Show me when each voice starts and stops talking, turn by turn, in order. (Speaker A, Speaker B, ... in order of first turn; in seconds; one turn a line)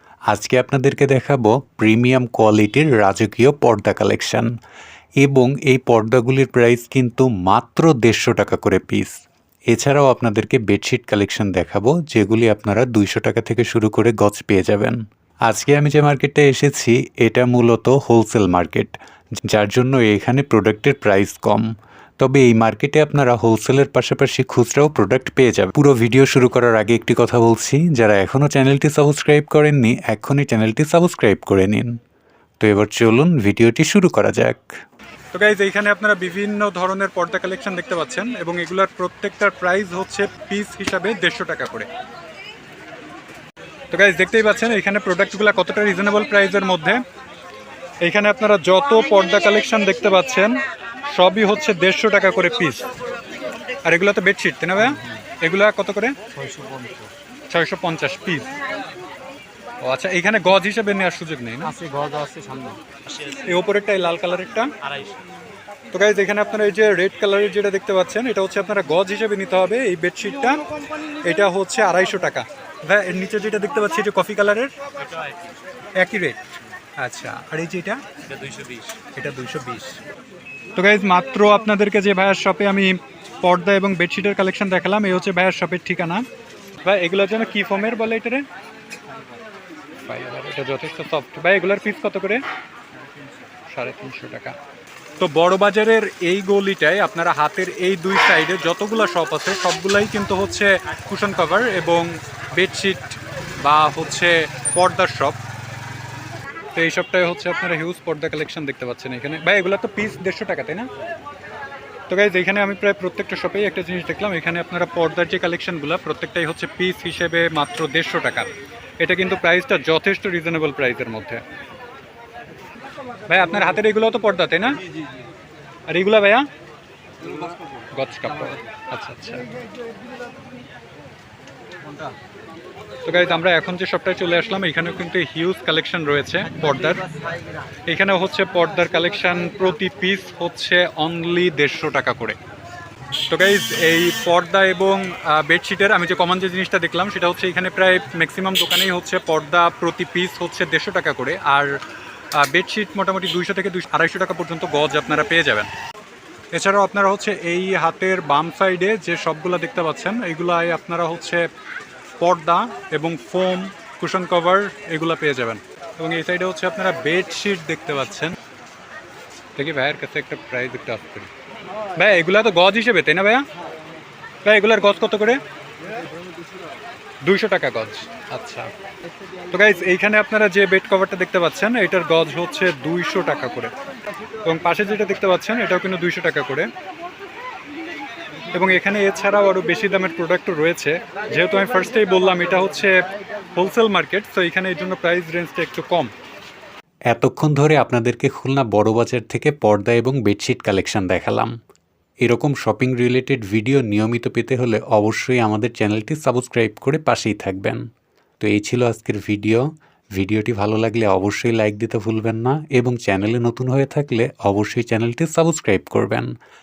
Speaker A: 0.3-4.5
Speaker A: 5.2-9.1
Speaker A: 9.7-18.9
Speaker A: 19.5-21.7
Speaker A: 22.2-32.0
Speaker A: 32.6-34.7
Speaker B: 35.3-41.9
Speaker B: 43.9-47.0
Speaker B: 48.0-52.9
Speaker B: 53.8-56.2
Speaker C: 56.4-57.1
Speaker B: 57.5-58.5
Speaker B: 59.8-61.7
Speaker C: 61.8-63.4
Speaker B: 63.4-64.7
Speaker B: 65.9-70.6
Speaker B: 71.2-74.7
Speaker C: 75.1-75.5
Speaker B: 76.0-76.4
Speaker B: 77.0-78.0
Speaker C: 78.4-79.0
Speaker B: 79.1-80.0
Speaker B: 80.8-86.2
Speaker B: 86.8-88.5
Speaker B: 90.0-92.4
Speaker B: 93.7-94.5
Speaker B: 95.2-105.4
Speaker B: 106.7-110.9
Speaker B: 112.1-121.4
Speaker B: 123.3-124.8
Speaker B: 125.9-126.5
Speaker B: 127.9-129.4
Speaker B: 133.1-137.0
Speaker B: 137.9-142.3
Speaker B: 143.3-151.8
Speaker B: 152.3-155.7
Speaker B: 156.5-161.5
Speaker B: 162.2-168.3
Speaker B: 169.6-171.3
Speaker B: 172.0-173.4
Speaker B: 174.4-175.4
Speaker B: 177.2-178.7
Speaker B: 179.5-183.7
Speaker B: 184.4-186.7
Speaker B: 188.5-193.0
Speaker B: 193.5-196.1
Speaker A: 197.1-201.5
Speaker A: 202.2-207.8
Speaker A: 208.4-209.7
Speaker A: 210.2-216.3